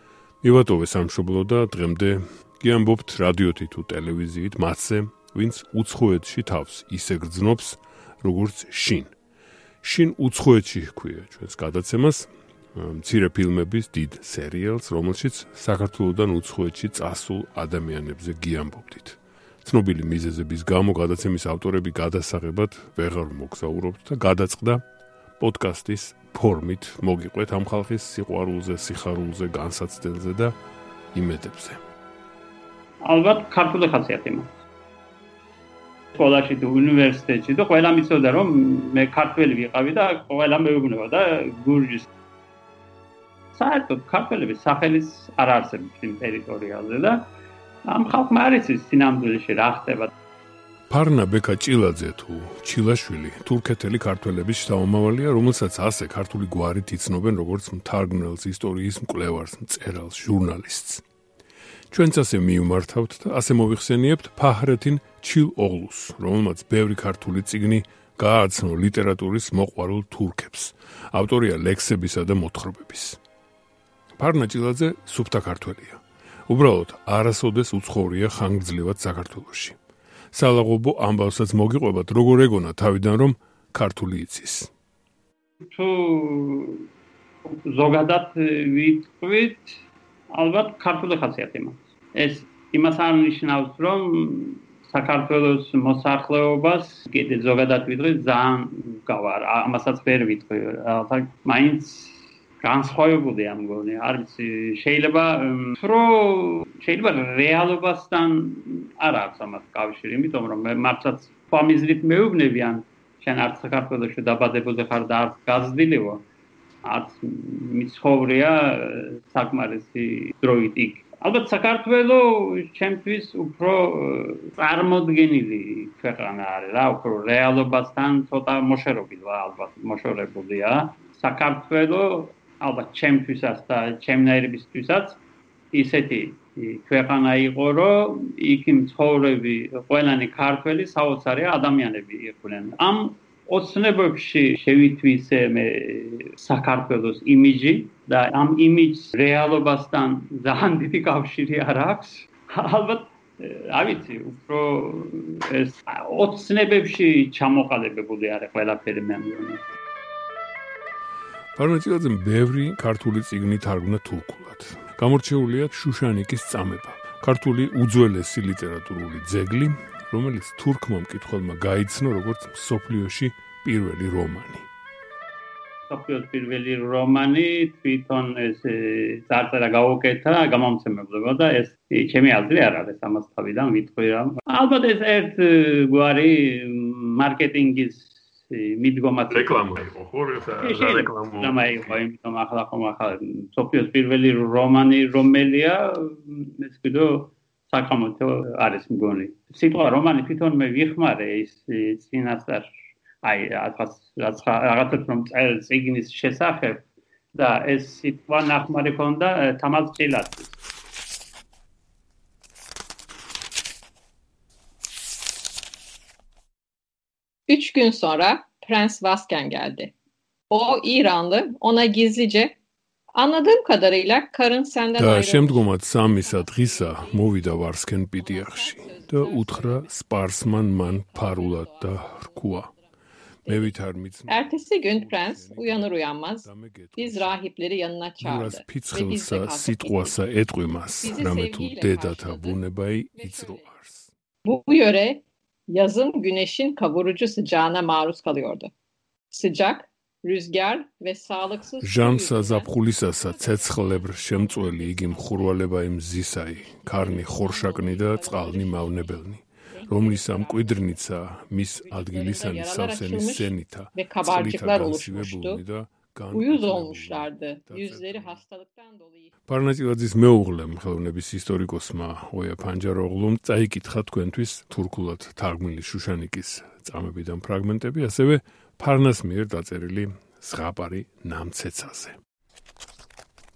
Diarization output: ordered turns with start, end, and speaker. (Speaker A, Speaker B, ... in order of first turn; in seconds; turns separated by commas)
Speaker A: 0.4-9.2, Speaker A: 9.8-24.8, Speaker A: 25.4-30.6, Speaker A: 31.1-31.8, Speaker B: 33.0-34.5, Speaker B: 36.1-42.1, Speaker B: 43.6-47.3, Speaker B: 47.9-50.1, Speaker A: 50.9-61.0, Speaker A: 61.9-73.2, Speaker A: 74.2-79.8, Speaker A: 80.3-84.7, Speaker B: 85.6-86.9, Speaker B: 87.5-89.8, Speaker B: 90.3-116.2, Speaker B: 116.8-135.2, Speaker B: 135.7-159.6, Speaker A: 161.6-174.7, Speaker B: 175.9-189.7, Speaker A: 189.3-191.9, Speaker B: 190.6-210.5, Speaker C: 217.5-219.9, Speaker C: 220.5-222.6, Speaker C: 223.1-227.5, Speaker A: 225.0-232.7, Speaker C: 228.2-232.9, Speaker C: 233.4-240.2, Speaker A: 233.5-237.4, Speaker A: 238.2-244.1, Speaker C: 241.0-242.6, Speaker C: 243.2-243.7, Speaker C: 244.4-248.7, Speaker C: 249.3-255.7, Speaker A: 251.8-268.4, Speaker C: 256.7-261.0, Speaker C: 261.8-265.6, Speaker C: 266.3-269.3, Speaker A: 269.5-282.1